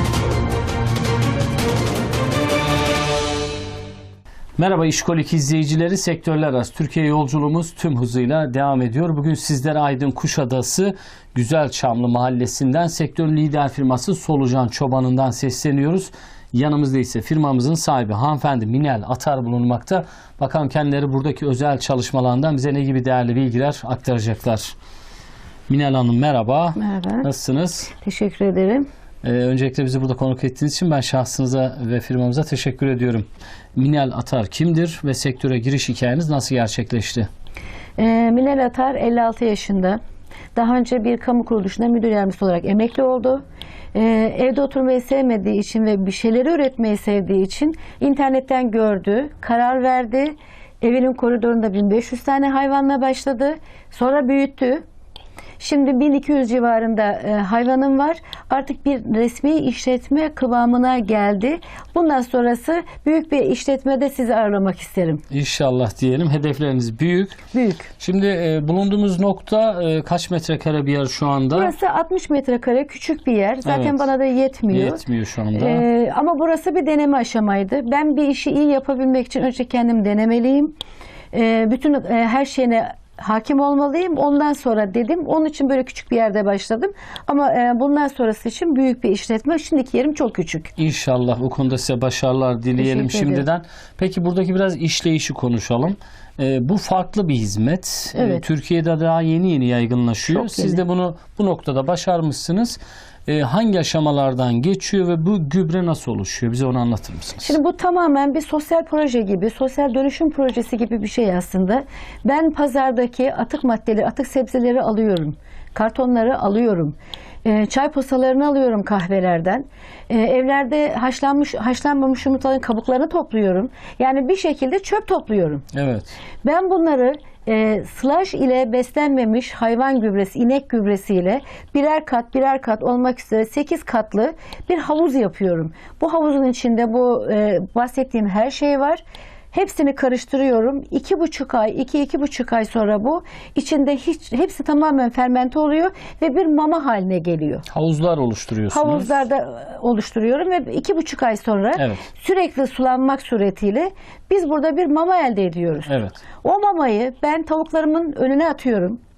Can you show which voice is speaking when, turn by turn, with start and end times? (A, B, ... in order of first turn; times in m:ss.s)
0:04.6-0:24.7 A
0:25.7-0:27.9 A
0:26.8-0:27.3 B
0:28.0-0:28.9 B
0:29.2-0:37.3 A
0:38.0-0:40.0 B
0:40.5-0:43.4 B
0:43.9-0:54.8 B
0:55.6-1:05.2 B
1:05.3-1:07.4 A
1:07.5-1:07.9 B
1:08.0-1:11.7 A
1:11.5-1:15.0 B
1:13.6-1:14.1 A
1:14.7-1:15.9 A
1:15.5-1:20.7 B
1:21.3-1:30.7 B
1:30.8-1:47.6 A
1:32.8-1:33.4 B
1:38.1-1:38.4 B
1:40.3-1:40.8 B
1:47.4-2:05.6 B
2:05.7-2:06.1 A
2:06.4-2:27.6 B
2:27.7-2:29.2 A
2:28.7-2:39.0 B
2:31.8-2:32.0 A
2:35.9-2:36.2 A